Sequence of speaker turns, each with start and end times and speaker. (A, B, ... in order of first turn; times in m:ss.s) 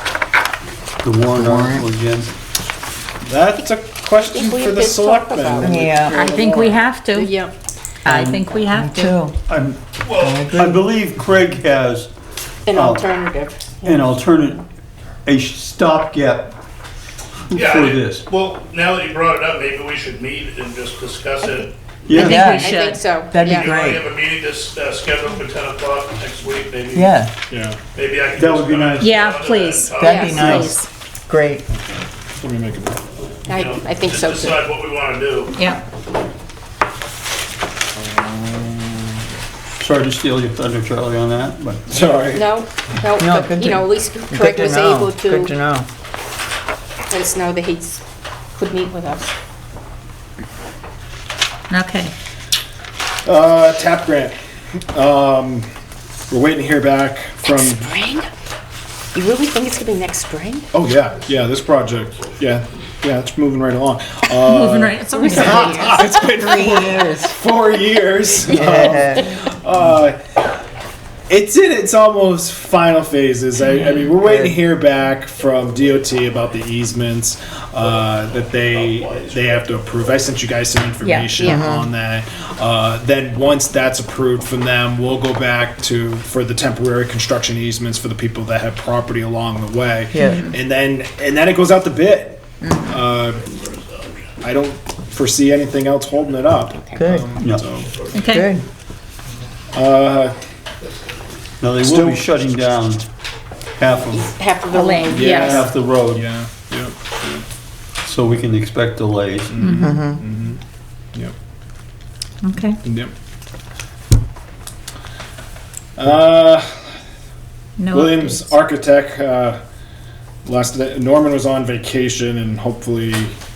0:01.0-0:02.3 A
0:01.3-0:01.9 B
0:03.2-0:07.0 C
0:04.3-0:06.0 D
0:05.6-0:06.2 B
0:06.1-0:07.4 E
0:07.1-0:07.5 D
0:08.0-0:09.2 E
0:08.0-0:09.4 B
0:09.5-0:09.8 A
0:10.0-0:10.5 F
0:10.1-0:10.9 B
0:10.5-0:12.1 A
0:12.7-0:13.9 D
0:12.7-0:13.1 A
0:13.8-0:14.6 A
0:15.2-0:16.6 A
0:17.5-0:18.2 A
0:17.5-0:22.2 F
0:22.1-0:22.5 A
0:22.1-0:23.0 E
0:22.2-0:22.7 B
0:22.2-0:23.7 D
0:23.3-0:24.1 B
0:23.4-0:27.2 F
0:26.9-0:27.3 B
0:27.5-0:27.8 C
0:27.9-0:30.7 F
0:28.4-0:29.1 A
0:29.0-0:30.9 E
0:30.0-0:31.6 B
0:30.3-0:30.7 A
0:32.4-0:33.0 C
0:33.5-0:34.7 D
0:33.5-0:35.6 F
0:35.5-0:35.8 E
0:38.0-0:39.1 C
0:39.8-0:41.8 A
0:41.9-0:42.5 C
0:42.3-0:45.5 D
0:43.2-0:45.9 B
0:47.1-0:48.0 D
0:48.6-0:49.3 D
0:51.7-0:52.1 E
0:53.2-0:54.4 C
0:54.9-0:55.7 C
0:56.3-0:57.9 C
0:57.5-0:58.3 D
0:59.1-1:00.7 D
1:00.7-1:10.3 C
1:04.4-1:06.1 E
1:05.2-1:05.9 D
1:06.0-1:07.4 B
1:08.5-1:09.3 B
1:11.3-1:33.5 C
1:13.8-1:14.1 E
1:14.2-1:14.6 B
1:17.9-1:20.3 F
1:21.0-1:21.4 E
1:21.4-1:21.6 D
1:21.5-1:21.9 B
1:30.1-1:30.4 B
1:30.2-1:30.6 E
1:32.6-1:33.0 E
1:33.4-1:34.2 F
1:34.4-1:37.9 C
1:36.7-1:37.0 D
1:37.0-1:37.3 B
1:37.4-1:37.6 A
1:37.9-1:38.4 F
1:38.1-1:38.5 E
1:38.2-1:38.6 B
1:39.7-1:40.4 C
1:41.6-1:43.1 A
1:41.8-1:42.2 C
1:43.8-1:44.4 A
1:44.1-1:45.4 D
1:44.7-1:45.7 E
1:45.0-1:47.4 C
1:45.2-1:46.3 A
1:48.0-1:49.8 A
1:49.5-1:50.6 C
1:49.6-1:50.0 E
1:49.8-1:50.2 B
1:52.4-1:52.8 E
1:52.8-1:53.1 C
1:56.0-1:56.8 C
1:57.8-1:58.6 E
1:57.9-1:59.6 C
2:00.4-2:03.4 C